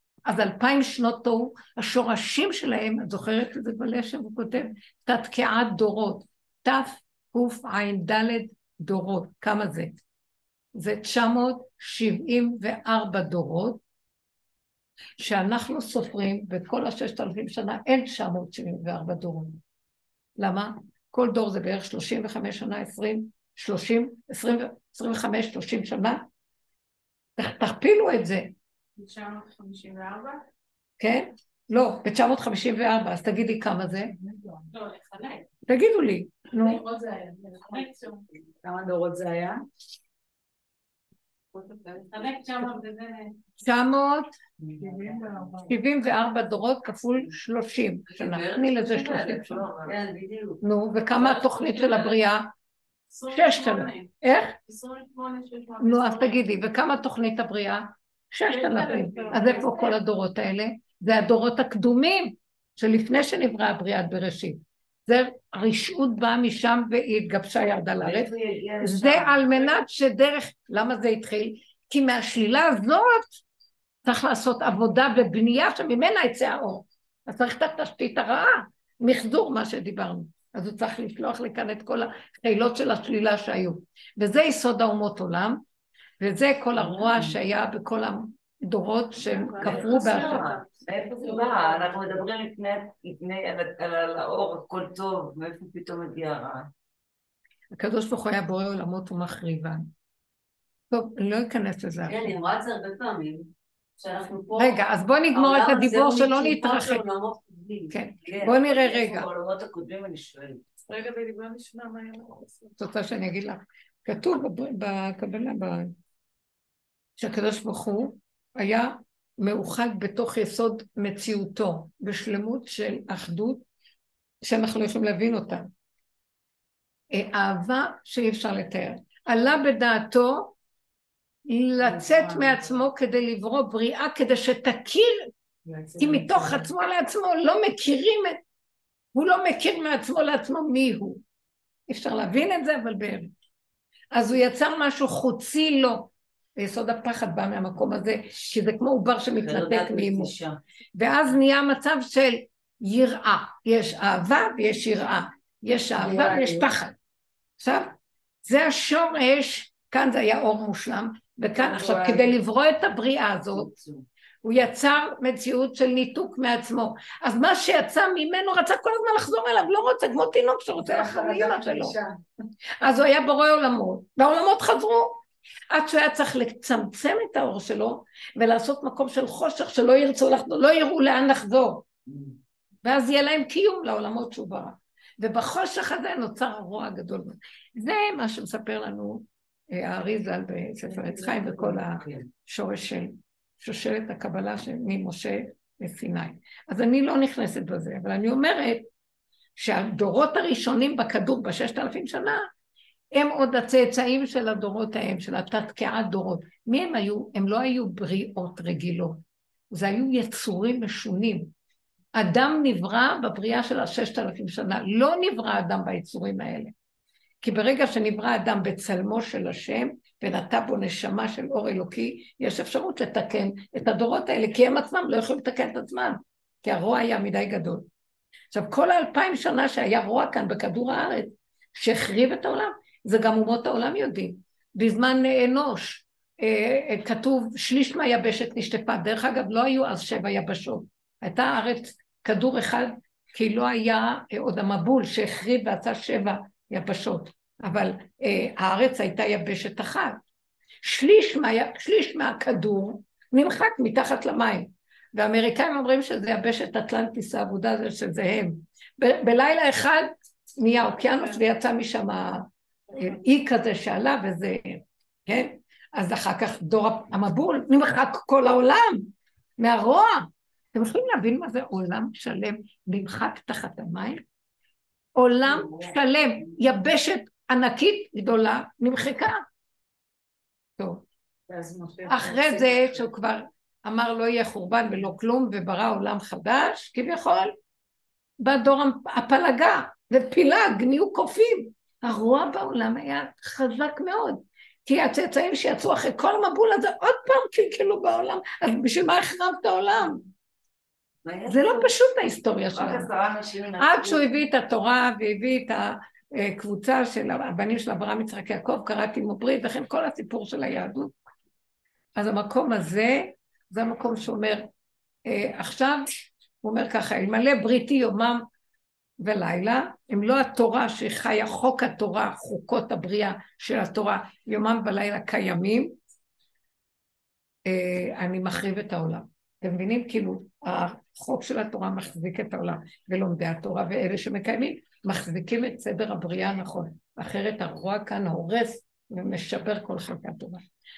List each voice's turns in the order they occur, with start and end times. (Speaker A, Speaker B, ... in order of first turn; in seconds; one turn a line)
Speaker A: 0.3-10.0
Speaker A: 10.8-13.8
Speaker A: 15.2-19.6
Speaker A: 20.4-26.2
Speaker A: 27.4-28.5
Speaker B: 29.0-30.4
Speaker A: 31.0-34.2
Speaker B: 34.7-35.4
Speaker A: 35.7-36.9
Speaker B: 36.5-38.2
Speaker C: 38.6-39.6
Speaker B: 41.5-43.3
Speaker A: 43.6-44.3
Speaker D: 44.6-45.0
Speaker B: 44.8-45.6
Speaker A: 45.6-49.7
Speaker D: 48.1-50.6
Speaker A: 50.6-52.5
Speaker B: 53.1-54.1
Speaker A: 53.3-54.6
Speaker B: 54.7-56.4
Speaker A: 55.8-73.4
Speaker B: 58.5-60.0
Speaker E: 68.0-69.7
Speaker A: 74.0-85.6
Speaker A: 86.2-90.5
Speaker E: 86.8-87.3
Speaker B: 89.4-91.7
Speaker E: 89.6-96.7
Speaker D: 89.7-90.6
Speaker A: 97.7-99.9
Speaker A: 100.9-102.4
Speaker D: 102.0-108.0
Speaker A: 104.5-107.0
Speaker A: 107.9-109.3
Speaker E: 108.3-110.7
Speaker B: 110.9-112.7
Speaker A: 112.8-115.9
Speaker A: 117.2-123.7
Speaker A: 124.4-125.7
Speaker A: 127.1-130.6
Speaker A: 131.5-135.3
Speaker C: 131.8-132.6
Speaker C: 135.7-136.7
Speaker A: 136.0-138.4
Speaker A: 139.1-141.2
Speaker A: 141.9-143.3
Speaker A: 144.1-150.3
Speaker E: 149.3-150.6
Speaker A: 150.9-156.9
Speaker C: 156.0-156.7
Speaker A: 157.6-157.9
Speaker A: 158.5-163.7
Speaker C: 161.6-162.2
Speaker E: 163.5-164.1
Speaker A: 164.4-172.0
Speaker C: 170.8-172.2
Speaker A: 172.8-175.2
Speaker A: 175.7-181.8
Speaker E: 182.1-182.3
Speaker A: 182.8-198.9
Speaker A: 199.6-202.4
Speaker A: 203.1-211.5
Speaker A: 212.2-216.7
Speaker A: 217.4-227.9
Speaker A: 228.5-250.2
Speaker A: 250.8-274.2
Speaker A: 275.2-279.4
Speaker A: 280.8-281.0
Speaker C: 281.5-283.1
Speaker A: 282.1-287.5
Speaker A: 288.4-300.2
Speaker E: 301.2-301.9
Speaker A: 301.5-303.1
Speaker E: 302.7-304.3
Speaker A: 303.8-311.1
Speaker A: 312.2-314.7
Speaker A: 315.3-318.4
Speaker A: 319.2-325.9
Speaker A: 327.7-340.6